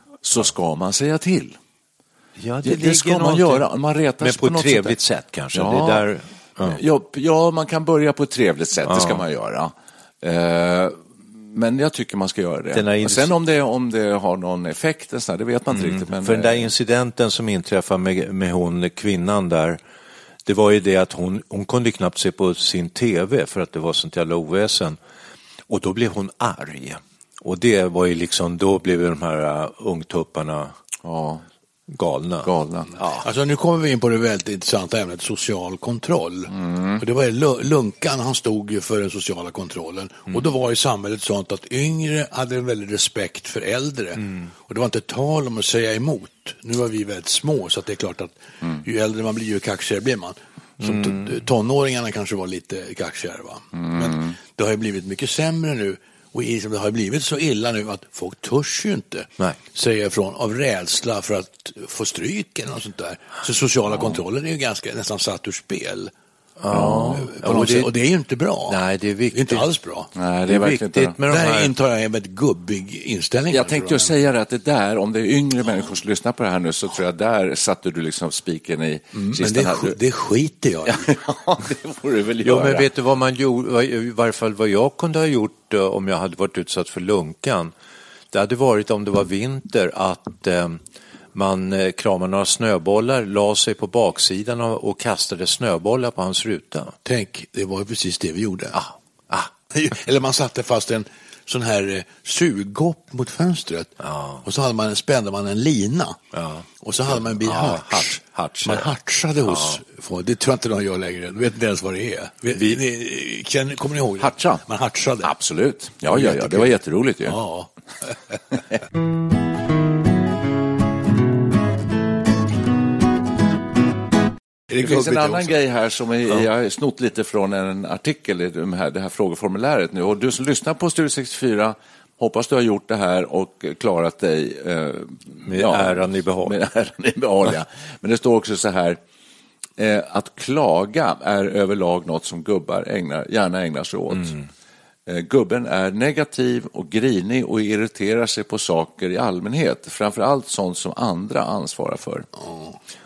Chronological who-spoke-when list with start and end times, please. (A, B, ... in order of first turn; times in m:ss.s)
0:00.2-0:01.6 A
0:02.4-0:03.7 B
0:02.6-0:05.0 A
0:04.2-0:06.8 B
0:05.5-0:06.1 A
0:06.6-0:16.7 A
0:08.9-0:09.2 B
0:12.7-0:13.3 B
0:15.8-0:19.8 B
0:20.5-0:25.0 B
0:25.7-0:30.7 B
0:31.0-0:31.4 A
0:31.9-0:33.2 B
0:32.4-0:32.9 A
0:33.2-1:06.1 C
0:36.5-0:37.0 A
0:50.8-0:51.4 B
0:53.7-0:54.4 A
1:06.6-1:07.9 B
1:06.7-1:07.3 A
1:07.2-1:08.8 C
1:08.7-1:09.7 B
1:09.3-1:10.1 C
1:10.2-1:11.2 A
1:10.5-1:11.7 B
1:11.3-1:14.1 C
1:13.5-1:20.0 A
1:19.1-1:21.1 C
1:20.9-1:22.9 A
1:22.4-1:27.7 B
1:28.3-1:30.8 B
1:31.3-1:37.0 B
1:37.0-1:38.8 C
1:38.7-1:39.5 B
1:39.7-1:46.2 C
1:44.0-1:44.4 B
1:46.3-1:46.7 B
1:46.8-1:55.3 C
1:47.4-1:48.9 B
1:49.5-1:49.8 B
1:54.2-1:54.6 A
1:55.2-1:57.4 A
1:56.1-1:57.7 C
2:04.7-2:05.6 C
2:04.8-2:19.0 A
2:15.5-2:16.6 B
2:19.8-2:24.4 A
2:25.1-2:32.3 A
2:32.4-2:32.8 C